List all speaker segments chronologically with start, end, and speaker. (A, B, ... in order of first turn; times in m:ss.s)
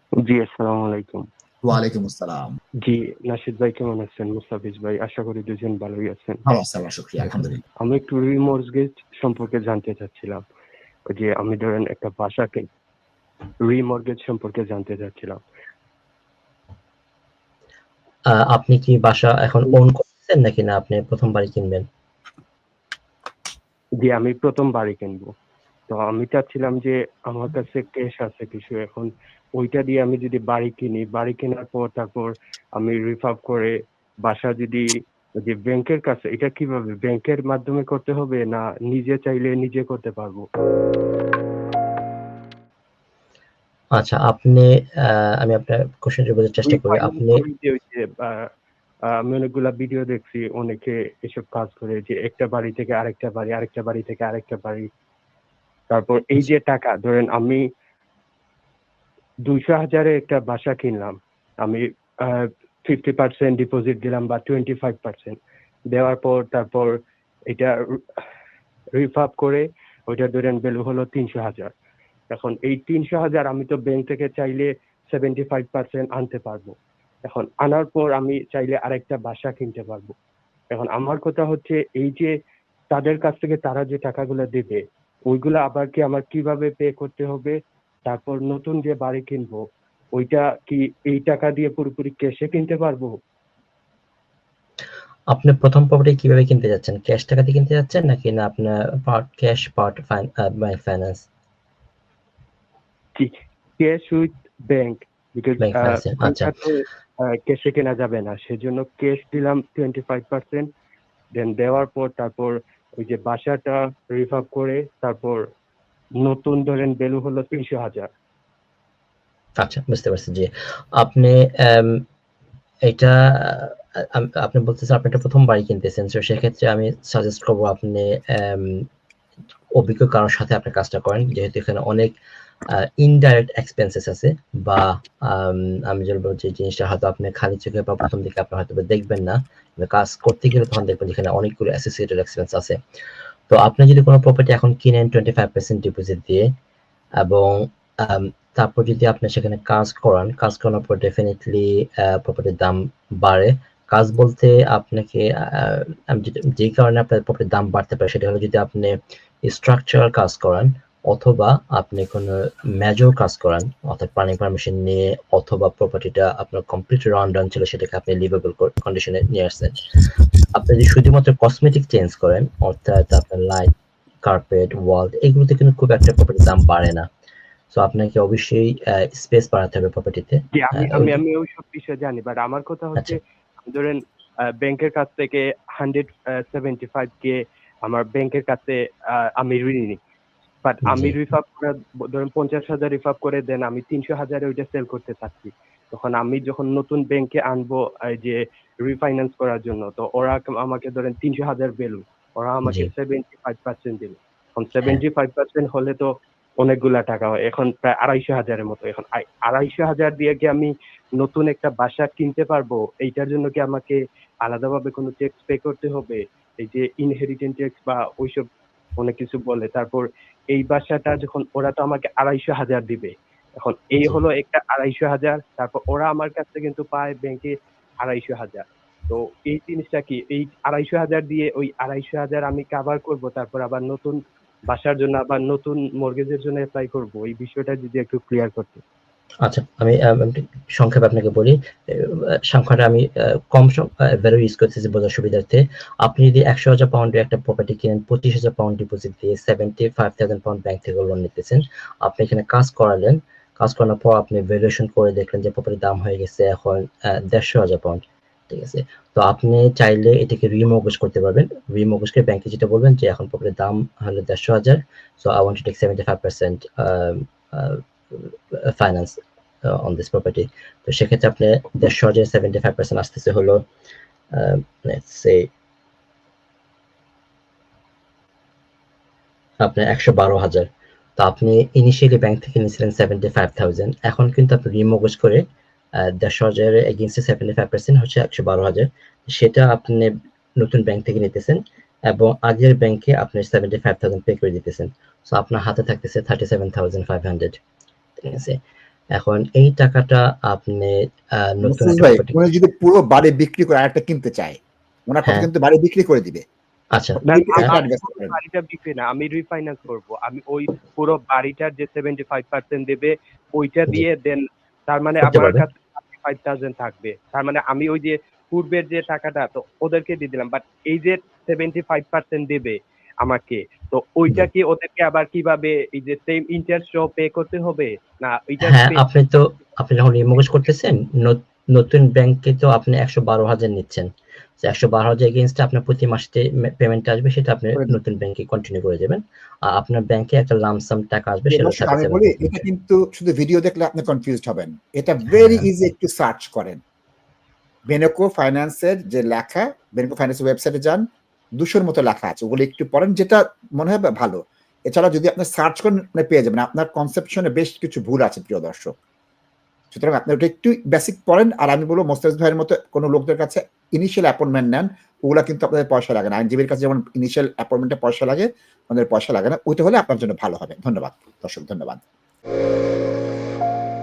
0:00.2-0:01.3 A
0:01.6-0:02.5 B
0:02.8-0:06.4 A
0:06.5-0:07.6 B
0:07.8-0:10.4 A
0:11.1-0:12.7 A
0:13.7-0:15.4 A
0:18.3-0:21.8 C
0:24.0-0:25.3 A
0:25.9-0:34.9 A
0:35.4-0:40.5 A
0:44.0-0:47.4 C
0:46.7-0:48.5 A
0:49.1-0:54.9 A
0:55.9-0:57.6 A
0:59.5-1:05.4 A
1:05.9-1:06.9 A
1:07.5-1:08.2 A
1:09.0-1:11.7 A
1:12.3-1:16.8 A
1:17.3-1:20.1 A
1:20.7-1:22.3 A
1:22.9-1:27.6 A
1:28.1-1:29.6 A
1:30.2-1:33.1 A
1:35.3-1:41.3 C
1:43.2-1:50.7 A
1:45.6-1:46.5 C
1:51.3-1:55.4 A
1:56.2-1:58.1 A
1:59.6-2:02.0 C
2:02.9-2:08.8 C
2:09.8-2:12.2 C
2:12.7-2:22.8 C
2:23.5-2:26.5 C
2:27.2-2:49.8 C
2:50.6-2:53.7 C
2:54.2-2:57.1 C
2:57.7-3:01.2 C
3:00.6-3:04.0 A
3:04.6-3:10.0 A
3:10.6-3:26.1 A
3:10.8-3:11.2 C
3:22.6-3:22.9 C
3:26.6-3:38.5 A
3:39.0-3:58.8 A
3:59.4-4:33.6 C
4:34.3-4:35.5 C
4:39.6-4:45.4 C
4:46.0-4:51.6 C
4:52.1-4:57.6 C
4:58.2-4:58.6 C
4:59.2-5:02.4 C
5:01.6-5:06.4 B
5:07.0-5:07.7 C
5:07.2-5:08.4 B
5:07.3-5:29.0 A
5:15.2-5:15.6 C
5:28.6-5:34.1 C
5:34.6-5:42.6 C
5:41.5-5:46.8 B
5:45.3-5:45.7 C
5:47.9-5:51.0 B
5:51.6-5:59.0 B
5:59.9-6:12.0 B